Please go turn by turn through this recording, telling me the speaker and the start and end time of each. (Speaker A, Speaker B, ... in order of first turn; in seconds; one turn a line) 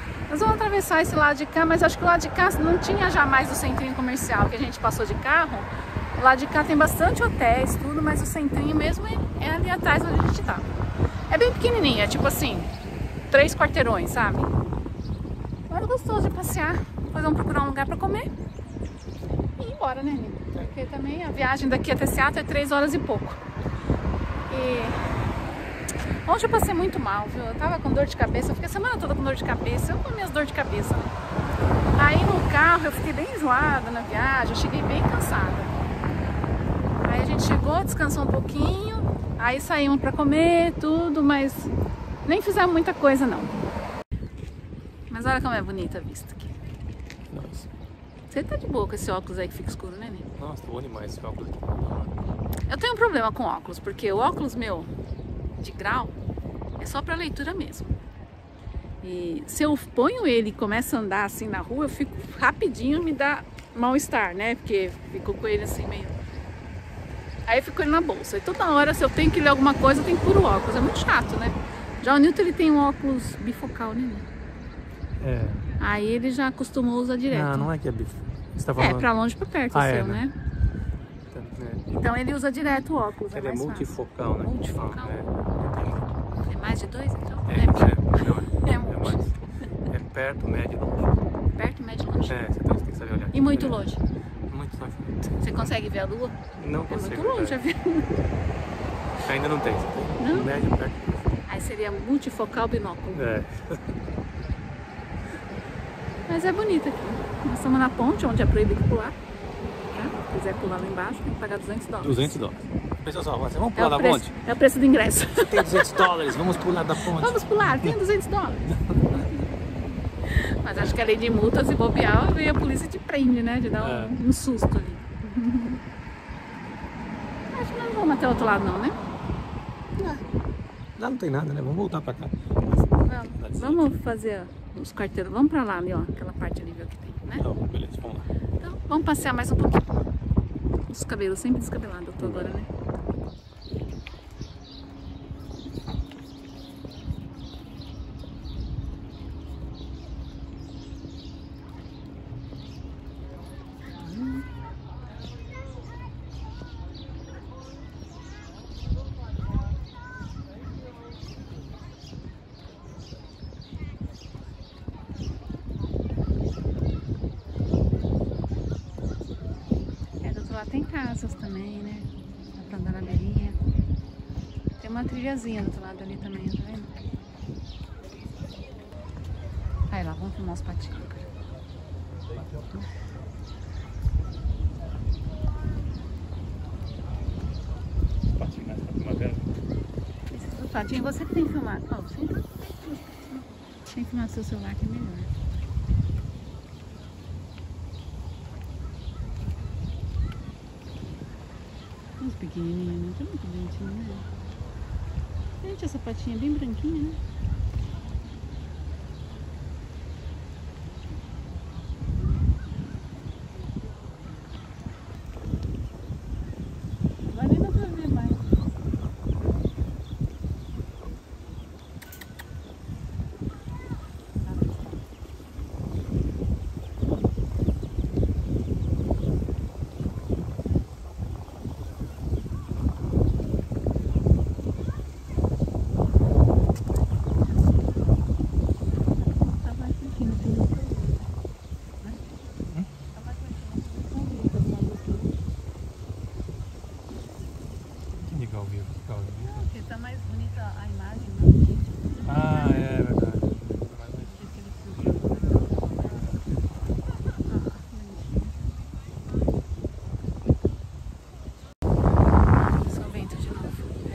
Speaker A: 0.3-10.7
Speaker A: 11.3-12.7
Speaker A: 13.3-14.5
Speaker A: 15.7-18.3
Speaker A: 19.6-23.4
Speaker A: 24.5-25.0
Speaker A: 26.3-31.1
Speaker A: 32.0-35.7
Speaker A: 37.0-41.7
Speaker A: 42.2-43.6
Speaker A: 45.1-46.5
Speaker B: 47.3-47.7
Speaker A: 48.3-50.3
Speaker B: 50.4-52.2
Speaker A: 52.7-54.9
Speaker A: 55.6-56.1
Speaker A: 56.8-57.9
Speaker A: 59.0-66.2
Speaker A: 67.5-74.2
Speaker B: 75.2-75.7
Speaker A: 75.8-77.7
Speaker B: 77.3-79.1
Speaker A: 78.8-80.3
Speaker B: 79.7-80.2
Speaker B: 81.3-82.0
Speaker A: 81.9-83.9
Speaker B: 83.3-86.2
Speaker A: 84.4-85.2
Speaker A: 86.5-89.2
Speaker B: 87.5-89.4
Speaker B: 89.9-91.2
Speaker A: 91.5-92.5
Speaker B: 92.3-93.9
Speaker A: 93.3-94.0
Speaker B: 94.5-95.2
Speaker A: 95.3-96.4
Speaker B: 96.5-97.6
Speaker A: 96.9-98.1
Speaker B: 99.2-101.2
Speaker A: 100.2-100.5
Speaker A: 101.5-103.2
Speaker B: 103.1-103.8
Speaker A: 106.3-109.2
Speaker A: 109.9-112.3
Speaker B: 112.0-114.3
Speaker A: 113.8-116.1
Speaker B: 115.3-117.9
Speaker A: 117.0-119.3
Speaker B: 118.7-119.3
Speaker A: 120.2-125.8
Speaker B: 123.8-124.2
Speaker A: 127.5-129.0
Speaker A: 129.9-130.2
Speaker B: 131.0-134.0
Speaker A: 133.0-137.4
Speaker B: 137.4-138.3
Speaker A: 138.6-140.0
Speaker A: 140.9-142.7
Speaker B: 142.2-142.5
Speaker A: 154.1-154.4
Speaker A: 170.2-173.6
Speaker A: 174.8-176.9
Speaker A: 179.9-181.3
Speaker B: 182.3-182.9
Speaker B: 188.4-189.5
Speaker A: 190.3-195.3
Speaker A: 202.2-204.3
Speaker A: 205.6-207.2
Speaker A: 217.3-218.5
Speaker A: 224.4-225.0
Speaker A: 239.2-241.2
Speaker A: 243.1-245.3
Speaker B: 248.1-249.6
Speaker A: 249.4-252.3
Speaker B: 252.2-254.4
Speaker A: 254.4-255.6
Speaker A: 257.4-258.5
Speaker A: 262.6-263.9